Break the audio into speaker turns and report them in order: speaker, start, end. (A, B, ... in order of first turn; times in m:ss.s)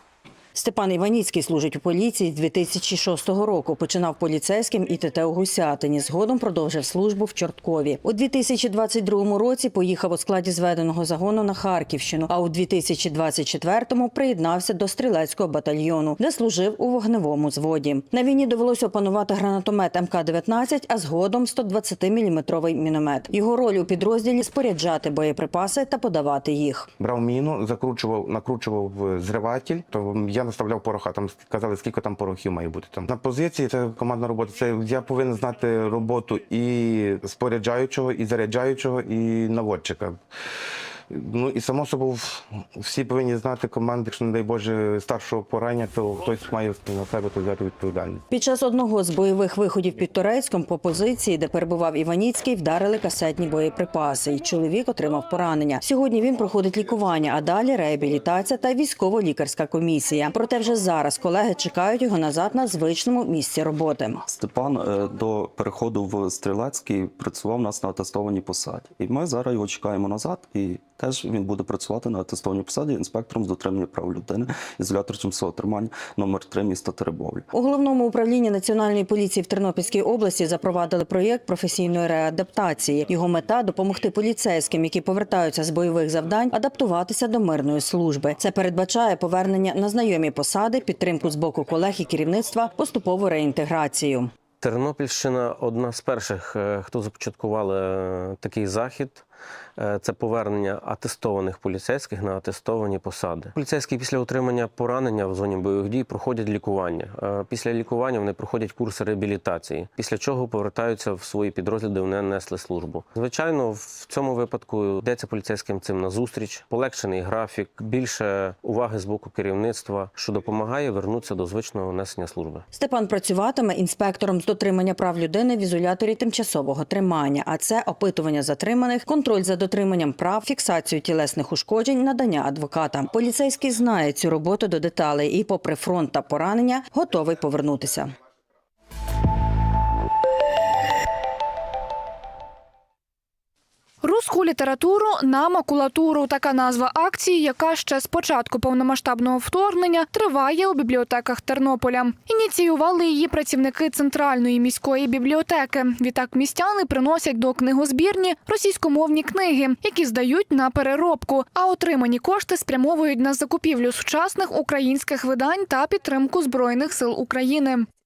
0:00.5-0:26.9 A
0:27.0-0:40.2 B
0:41.1-0:48.2 B
0:48.3-1:04.2 A
1:04.2-1:17.5 C
1:17.5-1:34.3 A
1:34.6-1:39.2 D
1:39.8-2:02.6 D
2:02.7-2:18.1 A
2:24.0-2:47.9 E